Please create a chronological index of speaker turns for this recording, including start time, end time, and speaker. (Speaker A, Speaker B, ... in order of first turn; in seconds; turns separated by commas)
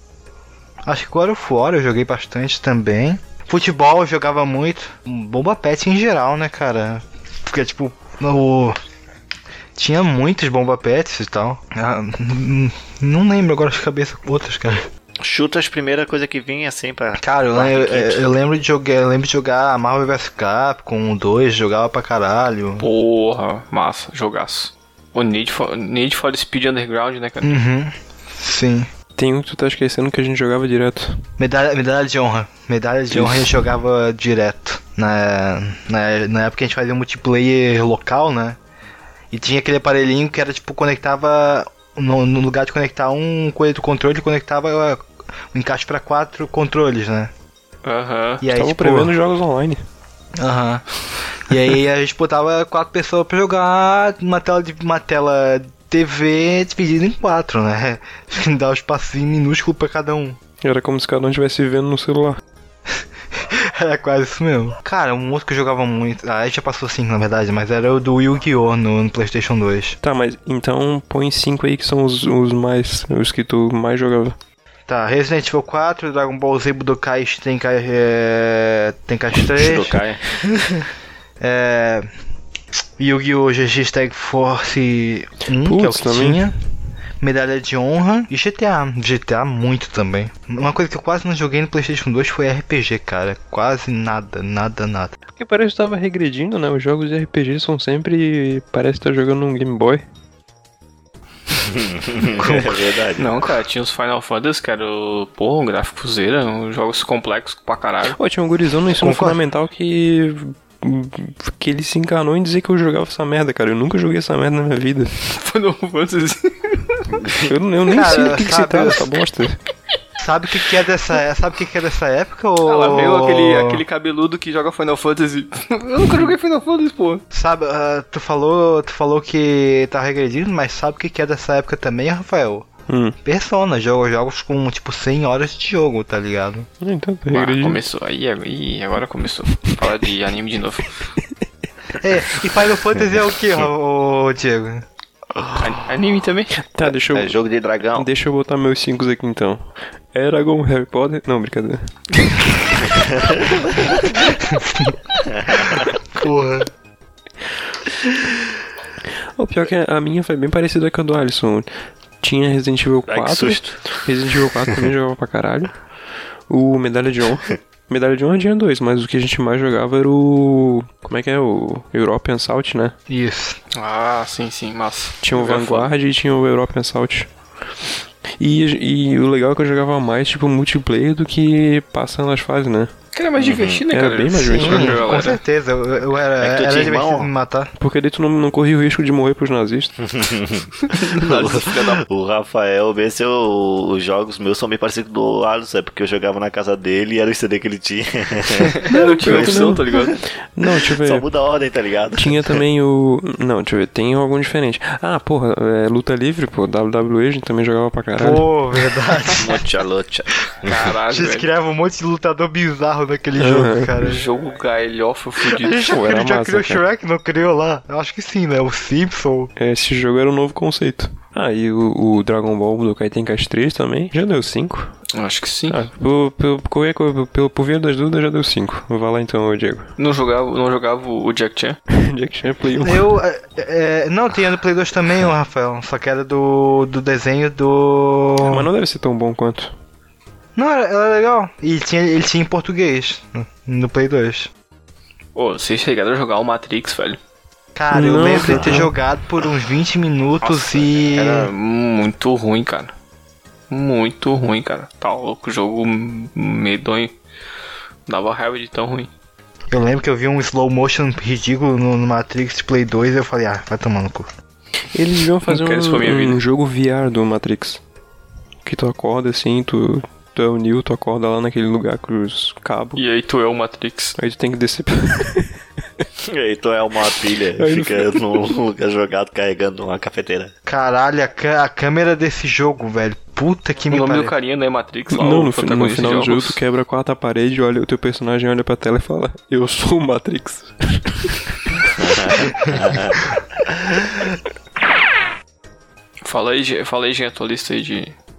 Speaker A: 0.8-8.8, Speaker A: 9.8-14.9, Speaker B: 15.2-18.3, Speaker A: 17.2-22.8, Speaker C: 22.8-27.6, Speaker A: 27.4-28.9, Speaker D: 29.2-31.2, Speaker A: 31.4-38.6, Speaker D: 33.1-33.5, Speaker A: 39.3-47.3, Speaker C: 47.8-48.4, Speaker A: 48.4-49.1, Speaker D: 48.5-49.8, Speaker A: 50.4-50.8, Speaker A: 51.4-60.4, Speaker D: 60.6-62.4, Speaker A: 62.9-70.0, Speaker D: 70.0-74.3, Speaker A: 74.9-80.0, Speaker B: 79.5-80.8, Speaker A: 81.4-82.1, Speaker A: 83.0-86.5, Speaker D: 85.6-86.5, Speaker A: 87.2-95.2, Speaker D: 95.4-100.0, Speaker B: 101.6-103.5, Speaker A: 102.4-102.7, Speaker C: 103.2-108.2, Speaker D: 108.1-115.1, Speaker A: 108.9-109.4, Speaker C: 115.2-117.1, Speaker B: 117.2-117.5, Speaker D: 117.4-119.6, Speaker A: 117.9-119.1, Speaker A: 120.2-123.8, Speaker C: 122.6-127.2, Speaker A: 127.3-132.7, Speaker D: 132.9-133.2, Speaker A: 133.2-136.7, Speaker D: 136.8-137.8, Speaker C: 137.3-140.9, Speaker A: 142.0-144.8, Speaker C: 145.6-146.5, Speaker D: 146.6-147.4, Speaker B: 147.1-148.1, Speaker D: 147.9-152.2, Speaker B: 152.8-153.8, Speaker A: 154.4-154.9, Speaker B: 155.2-155.9, Speaker A: 156.1-156.7, Speaker D: 159.3-161.7, Speaker D: 162.2-165.7, Speaker B: 163.1-164.0, Speaker D: 166.5-172.9, Speaker A: 173.1-173.6, Speaker C: 173.7-175.9, Speaker D: 175.2-177.3, Speaker D: 178.4-182.9, Speaker C: 183.1-185.4, Speaker B: 183.4-183.8, Speaker D: 183.9-185.0, Speaker A: 184.4-187.7, Speaker B: 186.4-187.3, Speaker D: 187.8-190.0, Speaker B: 190.0-200.2, Speaker C: 190.8-192.0, Speaker C: 198.7-200.2, Speaker D: 198.9-201.3, Speaker B: 200.9-202.6, Speaker D: 202.1-208.5, Speaker A: 208.2-209.6, Speaker B: 209.3-210.9, Speaker C: 210.6-211.5, Speaker A: 211.1-214.2, Speaker D: 213.4-214.0, Speaker C: 214.0-215.9, Speaker A: 215.4-219.5, Speaker D: 215.7-216.8, Speaker D: 219.6-225.0, Speaker C: 225.1-225.8, Speaker D: 225.7-229.9, Speaker C: 230.0-231.8, Speaker D: 231.9-233.2, Speaker A: 232.8-238.7, Speaker D: 238.4-239.7, Speaker A: 240.6-244.5, Speaker C: 245.3-247.2, Speaker A: 247.7-251.5, Speaker D: 247.9-248.9, Speaker C: 250.4-252.9, Speaker C: 253.7-257.1, Speaker C: 258.1-259.1, Speaker A: 259.7-264.3, Speaker D: 264.9-267.8, Speaker C: 265.5-266.4, Speaker D: 268.6-273.0, Speaker C: 272.9-274.1, Speaker D: 274.2-276.0, Speaker B: 276.2-280.5, Speaker D: 277.6-278.5, Speaker A: 280.6-284.3, Speaker C: 283.9-286.6, Speaker D: 285.1-291.4, Speaker B: 291.9-294.2, Speaker C: 296.2-298.1